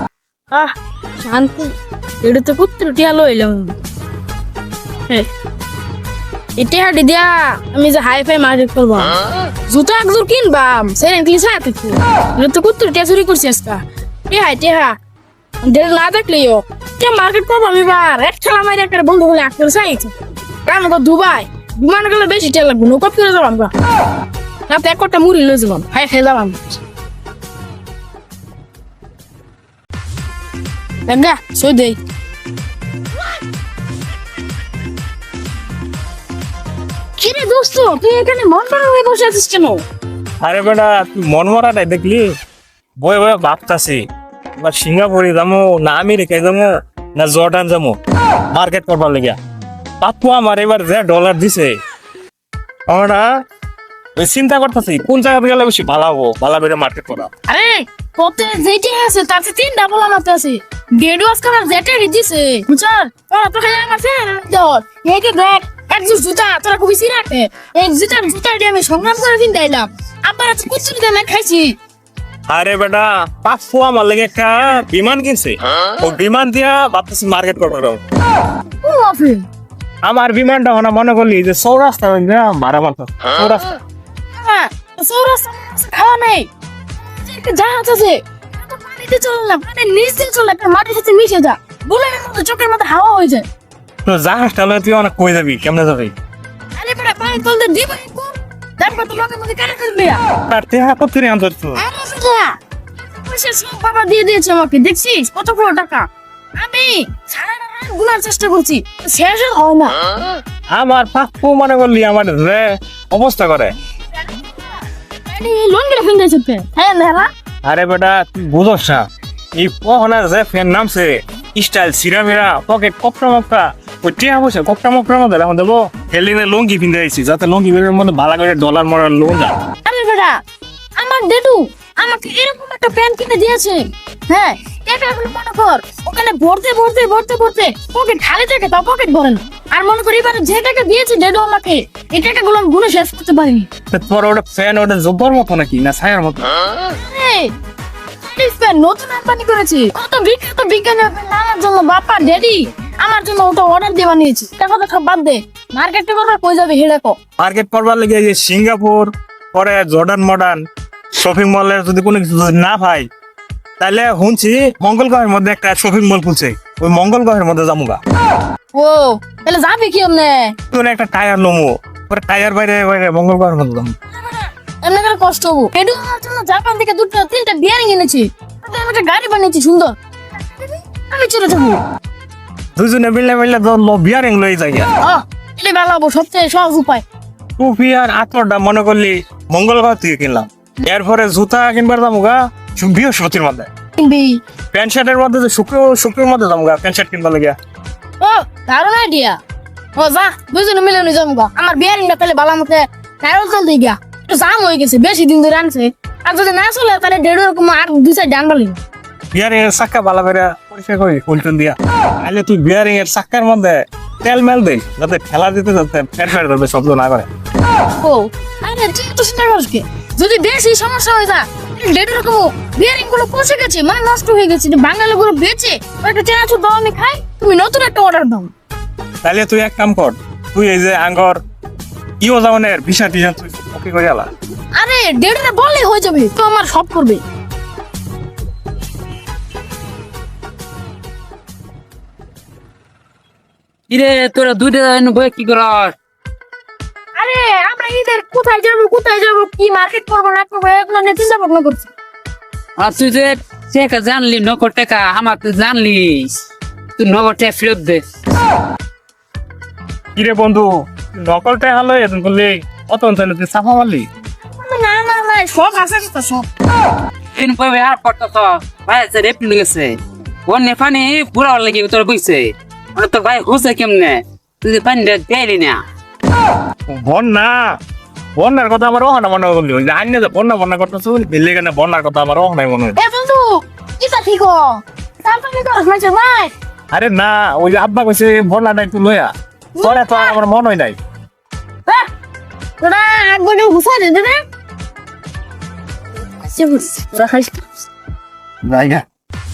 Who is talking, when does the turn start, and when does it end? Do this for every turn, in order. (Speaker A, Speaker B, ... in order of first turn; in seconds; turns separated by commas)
Speaker A: 0.5-3.7, Speaker A: 6.6-9.1, Speaker A: 9.7-15.0, Speaker A: 15.6-20.1, Speaker A: 20.6-23.7, Speaker A: 24.7-26.6, Speaker A: 31.1-32.0, Speaker A: 37.2-39.8, Speaker B: 40.4-42.3, Speaker B: 43.0-44.0, Speaker B: 44.6-48.0, Speaker B: 48.5-49.4, Speaker B: 50.0-51.7, Speaker B: 52.9-53.2, Speaker B: 54.1-57.3, Speaker A: 57.5-71.7, Speaker B: 72.5-78.0, Speaker A: 78.8-79.4, Speaker B: 80.0-83.7, Speaker A: 84.3-86.5, Speaker A: 87.2-93.4, Speaker B: 94.0-96.1, Speaker A: 96.8-100.2, Speaker B: 100.5-101.8, Speaker A: 101.8-102.6, Speaker A: 103.2-110.0, Speaker B: 110.7-113.7, Speaker A: 115.3-117.3, Speaker B: 117.6-129.5, Speaker A: 129.8-130.4, Speaker A: 130.9-143.7, Speaker B: 143.9-146.5, Speaker A: 146.8-147.5, Speaker A: 148.2-157.2, Speaker B: 157.4-163.1, Speaker B: 163.8-168.0, Speaker A: 168.7-170.6, Speaker B: 170.7-173.9, Speaker A: 174.2-179.9, Speaker A: 180.6-181.8, Speaker B: 182.8-184.9, Speaker A: 185.0-187.0, Speaker B: 187.6-193.7, Speaker A: 194.0-194.4, Speaker B: 194.7-197.6, Speaker A: 198.2-199.4, Speaker A: 199.9-208.8, Speaker B: 209.3-217.3, Speaker A: 218.0-228.5, Speaker B: 229.2-231.4, Speaker B: 232.2-234.3, Speaker A: 234.7-237.2, Speaker C: 243.9-245.9, Speaker A: 247.2-251.9, Speaker C: 252.8-256.4, Speaker C: 257.0-258.0, Speaker B: 260.1-264.1, Speaker A: 264.5-266.5, Speaker C: 267.3-275.8, Speaker B: 276.9-277.6, Speaker B: 278.4-283.0, Speaker A: 282.9-286.5, Speaker B: 286.9-290.9, Speaker A: 289.8-290.4, Speaker A: 292.8-294.4, Speaker A: 296.4-297.6, Speaker B: 298.7-299.0